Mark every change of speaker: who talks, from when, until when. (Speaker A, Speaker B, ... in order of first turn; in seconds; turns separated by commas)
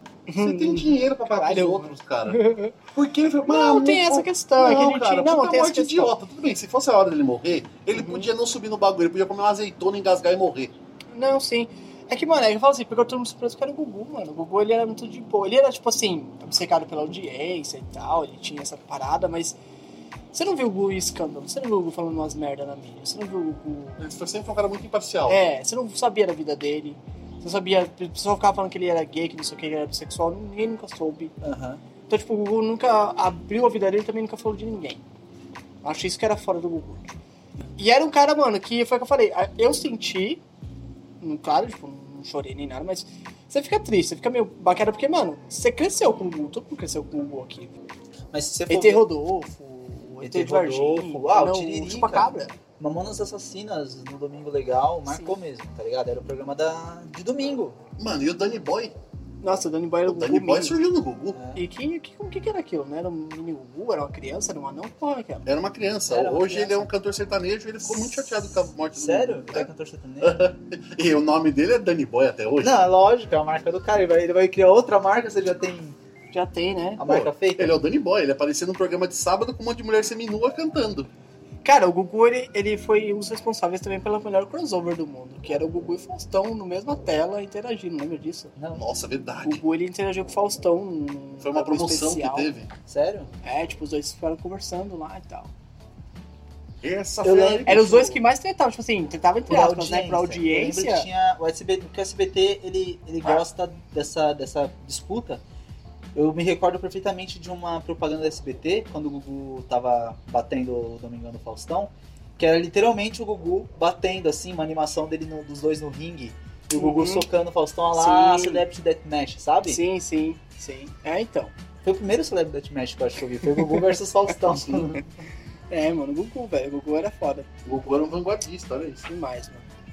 Speaker A: 0.3-2.8, Speaker B: 0.4-2.4, Speaker B: 3.0-10.7, Speaker A: 3.5-6.1, Speaker A: 7.9-8.3, Speaker A: 11.1-19.6, Speaker A: 20.3-24.0, Speaker B: 24.0-25.4, Speaker A: 25.3-31.4, Speaker C: 31.4-31.8, Speaker A: 32.1-35.0, Speaker A: 35.8-37.2, Speaker A: 37.8-40.4, Speaker A: 41.2-47.7, Speaker C: 48.3-49.0, Speaker A: 48.7-52.5, Speaker C: 50.2-57.8, Speaker A: 55.1-55.3, Speaker B: 58.0-58.9, Speaker A: 59.4-60.8, Speaker B: 60.1-61.4, Speaker C: 61.3-61.6, Speaker A: 61.6-65.5, Speaker B: 65.5-69.7, Speaker C: 66.1-66.9, Speaker C: 68.9-70.4, Speaker B: 70.2-72.7, Speaker C: 72.6-76.0, Speaker A: 76.3-77.0, Speaker C: 77.0-77.8, Speaker B: 77.0-81.1, Speaker A: 81.6-88.5, Speaker C: 88.6-88.8, Speaker B: 88.8-89.6, Speaker A: 89.4-92.5, Speaker B: 91.4-92.7, Speaker C: 92.9-93.3, Speaker A: 93.4-95.5, Speaker B: 96.8-98.2, Speaker C: 97.2-98.0, Speaker A: 97.7-101.1, Speaker C: 99.5-105.4, Speaker C: 106.2-119.8, Speaker A: 116.8-117.3, Speaker A: 118.0-118.6, Speaker A: 119.7-121.5, Speaker C: 121.8-125.0, Speaker A: 123.6-123.8, Speaker A: 124.7-125.0, Speaker A: 125.7-127.5, Speaker B: 127.7-129.0, Speaker A: 129.1-129.7